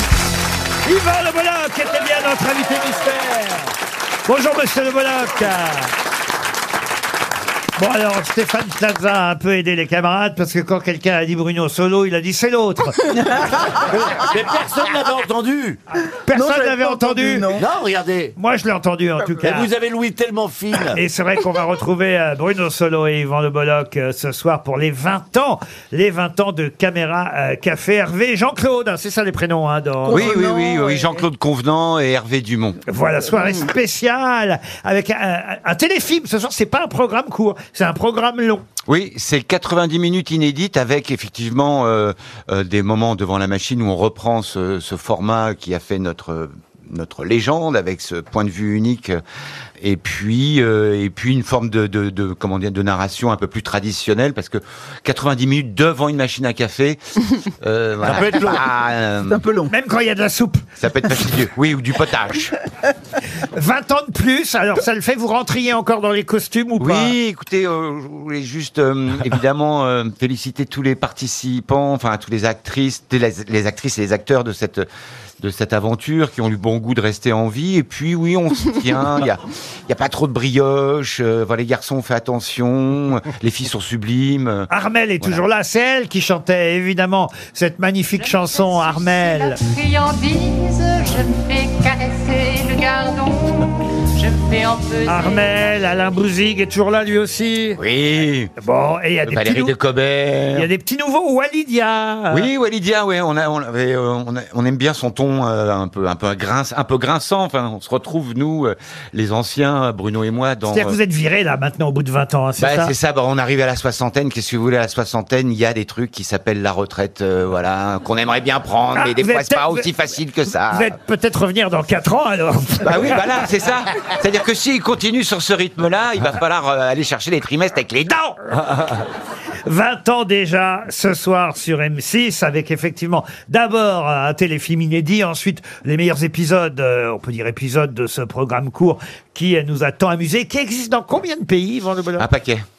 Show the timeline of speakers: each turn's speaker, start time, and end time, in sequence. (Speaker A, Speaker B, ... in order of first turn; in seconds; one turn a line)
Speaker A: 0.8-3.7
Speaker A: 4.3-5.9
Speaker A: 7.8-13.1
Speaker B: 13.6-15.8
Speaker A: 16.1-17.6
Speaker C: 16.3-17.6
Speaker B: 17.5-18.4
Speaker A: 18.4-19.7
Speaker B: 19.4-21.0
Speaker A: 20.9-30.4
Speaker C: 30.1-31.1
Speaker D: 30.1-32.8
Speaker A: 32.9-38.6
Speaker D: 38.9-49.2
Speaker D: 49.8-57.1
Speaker D: 57.6-59.4
Speaker B: 58.0-58.7
Speaker C: 59.2-59.7
Speaker A: 59.7-60.6
Speaker D: 60.8-62.5
Speaker A: 63.5-67.1
Speaker D: 66.8-74.8
Speaker D: 75.4-84.7
Speaker A: 84.7-89.6
Speaker E: 88.2-95.7
Speaker A: 95.0-97.8
Speaker D: 97.8-98.5
Speaker A: 98.6-99.7
Speaker D: 99.2-100.7
Speaker A: 100.5-102.5
Speaker D: 102.3-111.0
Speaker A: 110.7-112.9
Speaker D: 112.6-120.9
Speaker A: 119.0-119.9
Speaker A: 120.5-123.2
Speaker D: 122.8-128.4
Speaker A: 129.6-142.3
Speaker D: 142.2-142.6